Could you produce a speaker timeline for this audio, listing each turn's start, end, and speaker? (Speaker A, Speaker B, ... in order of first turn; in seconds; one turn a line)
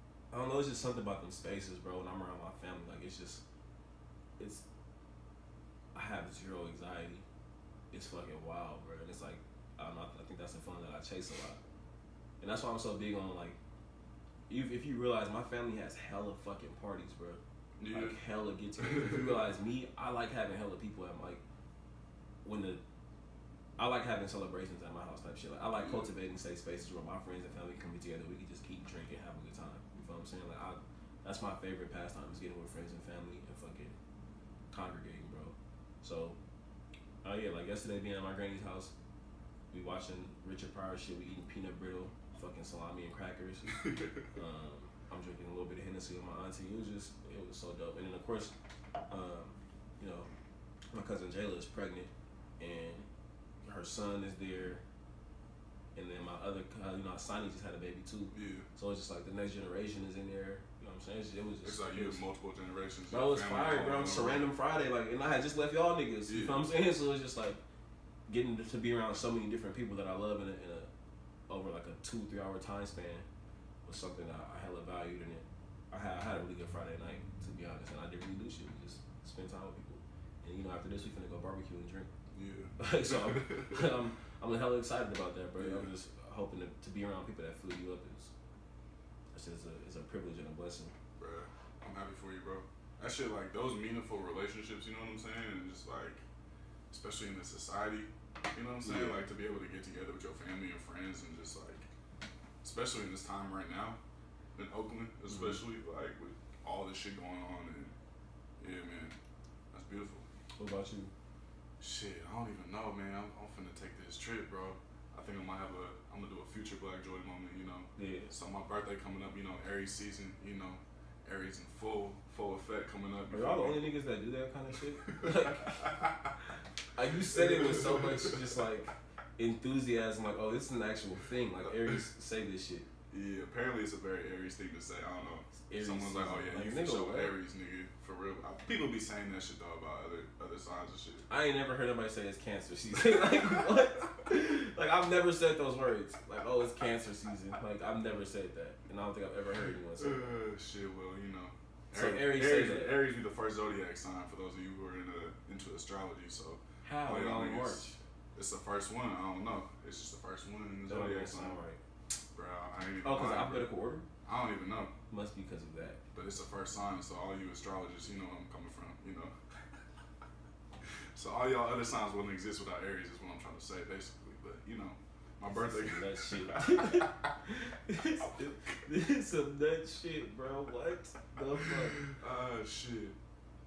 Speaker A: 0.3-3.5
Speaker A: 4.4-4.7
Speaker A: 5.9-7.2
Speaker A: 7.9-11.6
Speaker A: 12.4-13.6
Speaker A: 14.5-17.4
Speaker B: 17.8-18.2
Speaker A: 17.9-21.4
Speaker B: 18.8-19.4
Speaker A: 22.4-22.8
Speaker A: 23.8-34.0
Speaker B: 25.8-26.1
Speaker A: 34.7-36.4
Speaker A: 37.2-39.0
Speaker A: 39.7-48.5
Speaker B: 43.7-44.3
Speaker A: 49.1-50.3
Speaker A: 50.9-53.1
Speaker A: 53.6-54.8
Speaker A: 56.0-62.2
Speaker B: 58.3-58.7
Speaker B: 61.6-64.4
Speaker A: 63.1-67.6
Speaker B: 66.3-66.7
Speaker A: 68.3-70.9
Speaker A: 71.5-73.3
Speaker A: 73.8-82.1
Speaker B: 82.3-83.9
Speaker A: 82.8-88.3
Speaker B: 85.6-85.9
Speaker A: 89.3-90.9
Speaker B: 91.2-96.3
Speaker B: 96.9-101.9
Speaker A: 98.8-99.3
Speaker B: 102.6-104.0
Speaker B: 104.5-108.0
Speaker A: 105.3-105.6
Speaker B: 108.6-109.2
Speaker B: 109.7-110.3
Speaker A: 110.6-111.1
Speaker B: 111.8-123.8
Speaker A: 118.0-118.3
Speaker A: 123.3-132.9
Speaker B: 125.1-126.3
Speaker B: 127.3-128.6
Speaker B: 131.7-132.0
Speaker B: 133.1-141.3
Speaker A: 135.5-137.3
Speaker A: 141.3-150.3
Speaker B: 150.0-161.6
Speaker A: 151.9-153.0
Speaker A: 156.8-158.0
Speaker A: 160.9-161.8
Speaker B: 162.3-163.7
Speaker A: 163.0-164.1
Speaker B: 164.2-164.9
Speaker A: 165.1-166.0
Speaker B: 166.1-169.3
Speaker B: 171.2-177.3
Speaker A: 175.5-182.1
Speaker B: 181.7-183.2